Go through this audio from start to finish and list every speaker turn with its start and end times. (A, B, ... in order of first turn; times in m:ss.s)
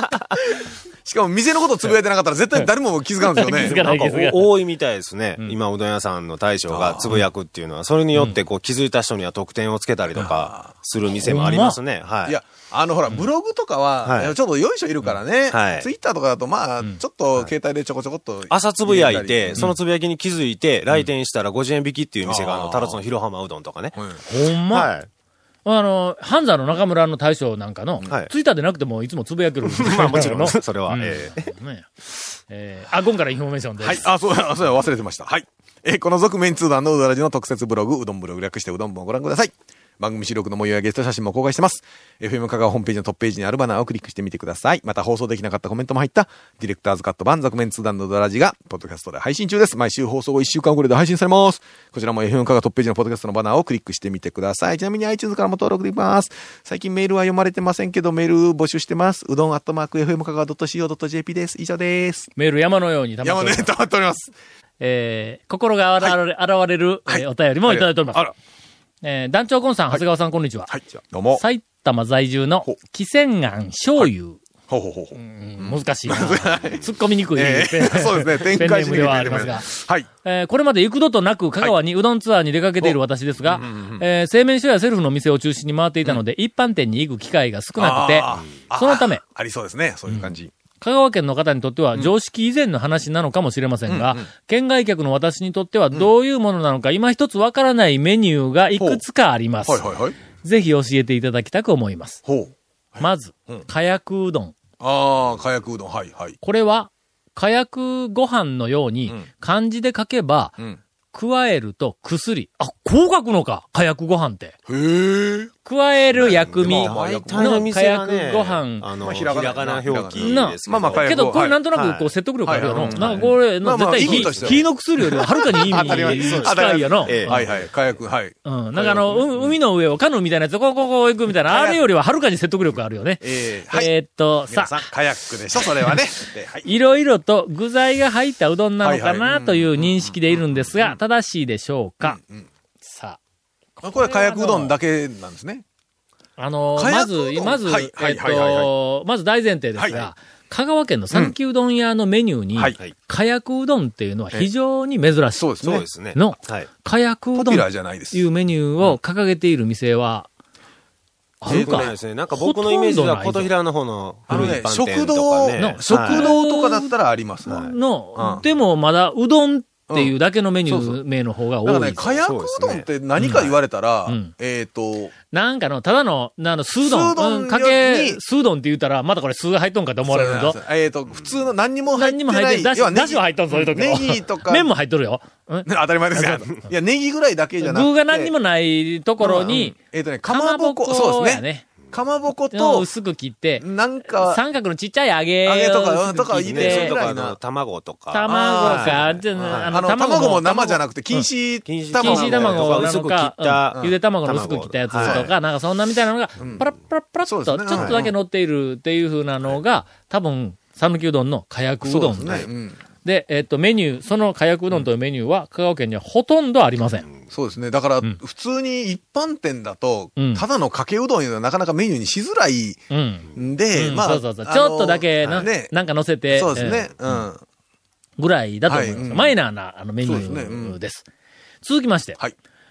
0:00.4-0:03.8 A
0:03.2-0:04.6 B
0:03.5-0:12.4 C
0:06.7-0:07.2 A
0:10.1-0:10.7 A
0:11.2-0:11.8 B
0:12.3-0:19.7 A
0:14.0-0:14.3 C
0:15.5-0:15.9 C
0:18.5-0:24.0 C
0:22.2-0:23.0 A
0:24.3-0:24.9 B
0:24.7-0:25.1 C
0:25.6-0:31.9 B
0:29.7-0:31.5 C
0:32.5-0:34.1 B
0:33.8-1:02.3 A
1:02.4-1:03.7 B
1:03.2-1:04.3 A
1:04.8-1:08.3 B
1:07.1-1:08.3 A
1:09.0-1:10.8 B
1:10.7-1:11.4 A
1:11.3-1:14.4 B
1:14.7-1:20.1 A
1:15.2-1:19.7 B
1:20.2-1:29.2 B
1:22.8-1:24.0 A
1:27.8-1:30.5 A
1:30.1-1:39.8 B
1:33.9-1:34.3 A
1:38.8-1:39.0 A
1:39.6-1:40.2 A
1:40.4-1:42.2 B
1:42.3-1:43.7 A
1:43.0-1:44.6 B
1:44.8-1:46.4 A
1:46.4-1:50.6 B
1:51.1-1:54.6 B
1:54.7-1:55.5 A
1:55.6-1:58.9 B
1:56.2-2:01.2 C
1:56.2-1:57.7 A
1:59.0-2:01.6 A
2:00.2-2:07.5 B
2:01.7-2:03.3 C
2:02.4-2:09.6 A
2:04.0-2:04.6 C
2:05.5-2:07.6 C
2:08.4-2:14.9 B
2:11.5-2:11.8 A
2:13.2-2:13.9 A
2:14.5-2:16.7 A
2:16.6-2:22.2 B
2:18.8-2:21.0 A
2:22.0-2:22.5 A
2:22.8-2:23.2 B
2:23.8-2:24.8 B
2:23.8-2:25.6 A
2:26.4-2:35.6 B
2:26.8-2:28.7 A
2:29.8-2:30.0 A
2:31.1-2:31.4 A
2:35.4-2:35.9 A
2:35.6-2:36.7 C
2:36.1-2:40.3 B
2:37.4-2:38.3 A
2:41.4-2:43.5 B
2:41.5-2:41.9 A
2:41.5-2:46.4 C
2:44.3-2:48.4 A
2:44.3-2:44.6 B
2:45.6-2:46.9 B
2:47.5-2:52.0 B
2:49.9-2:50.1 A
2:50.7-2:51.0 A
2:51.6-2:55.1 A
2:52.0-2:52.9 C
2:53.2-2:53.5 B
2:54.1-2:54.3 B
2:55.3-3:00.6 B
2:56.8-2:58.2 A
3:00.1-3:04.7 A
3:01.9-3:06.6 B
3:05.7-3:08.3 A
3:07.6-3:11.7 B
3:09.2-3:12.9 A
3:12.5-3:17.0 B
3:13.6-3:14.4 A
3:15.4-3:17.4 A
3:16.5-3:19.7 C
3:18.1-3:21.3 B
3:18.3-3:22.9 A
3:21.7-3:25.3 C
3:21.9-3:32.5 B
3:25.0-3:25.3 A
3:26.4-3:26.6 A
3:27.3-3:28.1 A
3:27.8-3:28.0 C
3:31.8-3:32.8 A
3:33.0-3:37.1 B
3:37.3-3:45.7 A
3:40.2-3:40.4 B
3:42.9-3:47.2 B
3:46.3-3:47.4 A
3:48.2-3:51.1 B
3:48.7-3:49.4 A
3:50.0-3:50.8 A
3:51.6-3:52.2 B